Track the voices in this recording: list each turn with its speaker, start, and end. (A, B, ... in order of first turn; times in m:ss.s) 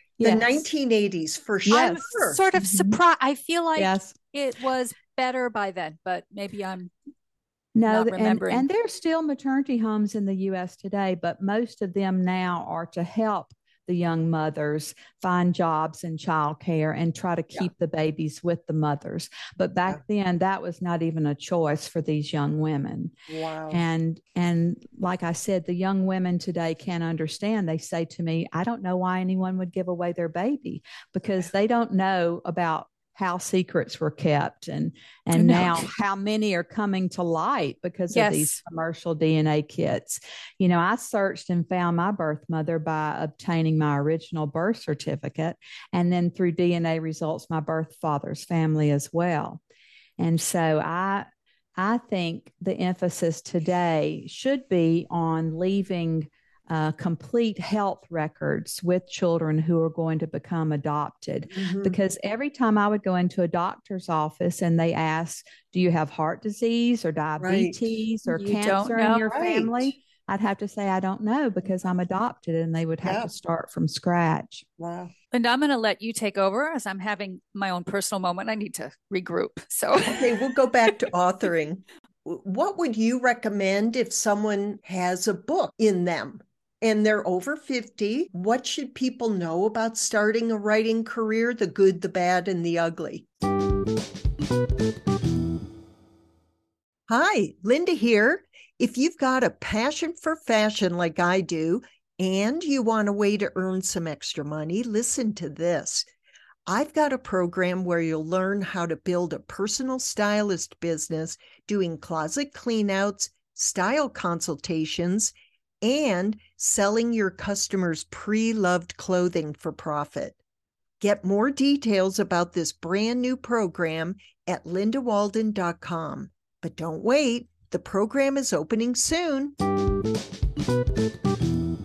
0:00.2-0:00.6 A
0:00.2-0:02.4 B
0:01.7-0:02.0 A
0:01.7-0:06.9 C
0:02.5-0:03.0 A
0:03.8-0:04.1 A
0:07.7-0:23.1 A
0:07.9-0:08.6 C
0:23.3-0:23.8 B
0:23.7-0:49.6 A
0:35.3-0:35.9 C
0:38.1-0:38.6 C
0:50.2-0:51.2 A
0:51.8-1:14.6 A
1:01.5-1:02.0 B
1:07.4-1:07.8 B
1:08.2-1:09.3 C
1:09.2-1:09.9 B
1:13.0-1:13.3 B
1:14.8-1:15.1 B
1:15.3-1:20.3 C
1:20.0-1:33.3 B
1:37.1-1:46.0 B
1:46.6-2:00.4 B
2:01.0-2:09.6 B